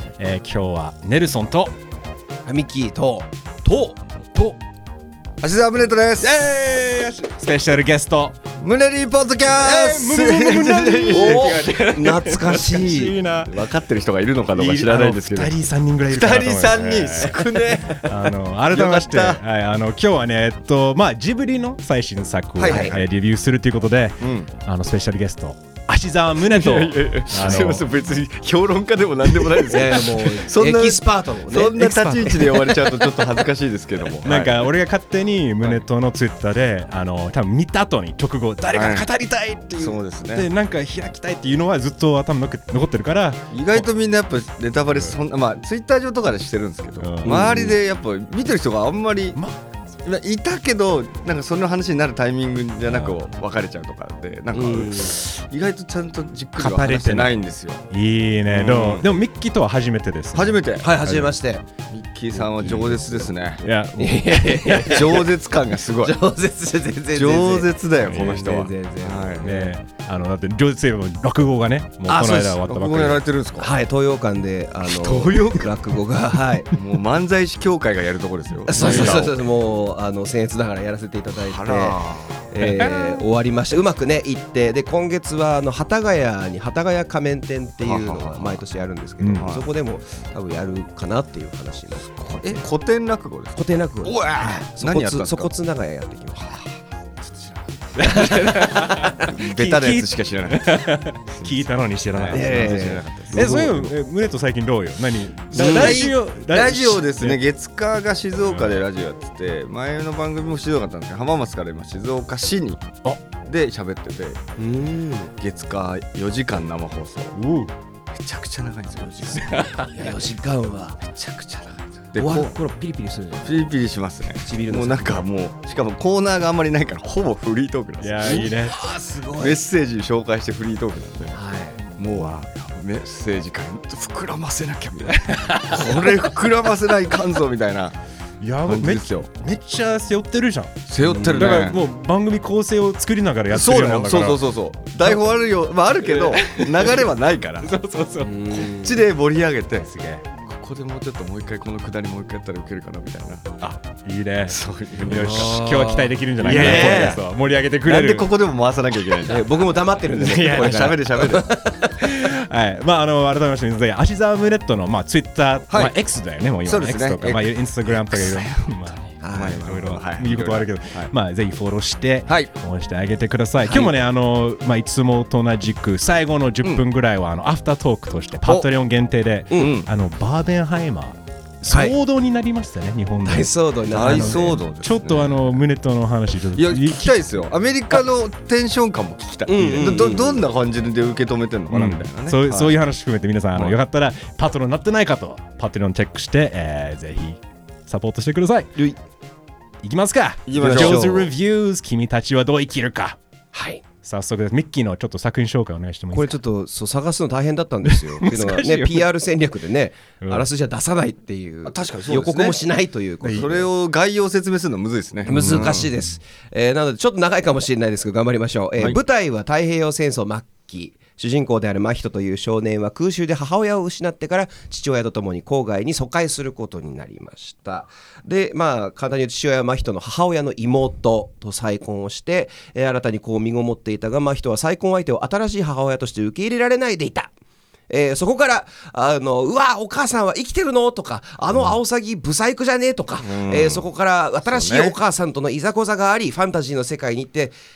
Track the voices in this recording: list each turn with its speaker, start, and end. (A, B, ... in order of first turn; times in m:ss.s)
0:00.2-0:01.8 A
0:02.4-0:04.0 B
0:04.3-0:04.6 A
0:05.4-0:06.4 C
0:06.2-0:08.4 A
0:08.6-0:11.7 C
0:09.5-0:13.6 A
0:11.1-0:13.2 B
0:13.4-0:15.6 C
0:14.5-0:27.9 A
0:16.1-0:18.2 C
0:17.3-0:18.0 B
0:18.7-0:19.4 C
0:22.6-0:23.0 C
0:22.6-0:23.0 B
0:24.2-0:24.5 C
0:26.5-0:34.7 C
0:29.7-0:33.3 B
0:31.8-0:32.6 A
0:34.2-0:43.9 A
0:38.7-0:39.1 C
0:39.8-0:40.5 C
0:43.5-0:49.4 C
0:44.9-0:45.2 A
0:47.0-0:47.7 A
0:47.2-0:47.7 B
0:49.4-0:49.6 A
0:50.1-0:57.8 C
0:52.8-0:53.2 A
0:54.5-0:55.2 B
0:56.6-1:01.3 A
0:58.5-0:59.1 C
1:00.3-1:00.9 C
1:00.8-1:01.7 B
1:01.9-1:03.7 C
1:02.6-1:03.0 A
1:02.7-1:03.3 B
1:03.6-1:05.2 A
1:04.0-1:05.3 B
1:04.8-1:06.2 C
1:06.0-1:09.8 B
1:07.1-1:09.5 C
1:08.1-1:08.5 A
1:09.4-1:13.2 A
1:12.1-1:12.6 B
1:12.6-1:13.7 C
1:13.6-1:16.7 B
1:14.8-1:15.7 C
1:16.7-1:19.4 C
1:18.7-1:32.6 B
1:21.4-1:22.4 C
1:22.6-1:22.9 A
1:27.8-1:28.6 C
1:29.2-1:29.5 A
1:29.4-1:29.6 C
1:32.2-1:35.5 C
1:33.6-1:36.5 B
1:36.4-1:36.8 C
1:37.3-1:37.6 C
1:38.0-1:47.4 A
1:38.0-1:39.3 B
1:39.3-1:43.9 C
1:42.3-1:43.9 B
1:45.5-1:52.9 C
1:45.6-1:46.0 B
1:48.4-1:48.8 A
1:53.4-1:54.4 C
1:54.6-1:55.3 B
1:55.4-1:57.3 C
1:57.4-1:57.7 A
1:58.1-2:00.0 C
1:59.7-2:01.0 B
2:01.1-2:02.6 C
2:02.2-2:03.6 B
2:03.4-2:08.6 C
2:04.4-2:05.3 B
2:08.0-2:08.8 A
2:08.2-2:09.6 B
2:09.4-2:11.4 C
2:11.3-2:11.8 B
2:12.0-2:18.0 C
2:15.3-2:16.1 A
2:18.4-2:24.4 A
2:18.7-2:19.3 C
2:20.9-2:21.8 C
2:21.0-2:21.6 B
2:23.5-2:27.8 C
2:26.0-2:27.1 A
2:27.6-2:28.3 A
2:28.2-2:29.0 B
2:28.6-2:29.9 C
2:29.7-2:30.2 A
2:30.5-2:33.5 C
2:33.6-2:38.3 A
2:34.5-2:35.6 C
2:35.1-2:37.2 B
2:36.4-2:37.2 C
2:37.8-2:39.5 C
2:39.3-2:42.0 B
2:40.2-2:41.5 C
2:40.2-2:41.4 A
2:42.0-3:07.2 A
2:46.6-2:51.1 C
2:49.2-2:49.6 B
2:53.6-2:53.9 B
2:59.6-2:59.9 C
3:01.7-3:02.0 B
3:03.2-3:04.6 B
3:03.9-3:05.6 C
3:06.6-3:12.8 C
3:09.5-3:10.4 B
3:11.7-3:18.7 A
3:19.8-3:23.2 A
3:20.5-3:21.3 C
3:20.5-3:21.3 B
3:23.5-3:23.8 B
3:24.0-3:26.4 A
3:26.1-3:33.7 B
3:27.9-3:29.1 A
3:31.6-3:32.6 C
3:33.2-3:35.8 C
3:35.3-3:57.3 B
3:35.3-3:36.0 A
3:57.9-4:07.6 B
4:03.2-4:03.9 C
4:04.5-4:05.0 C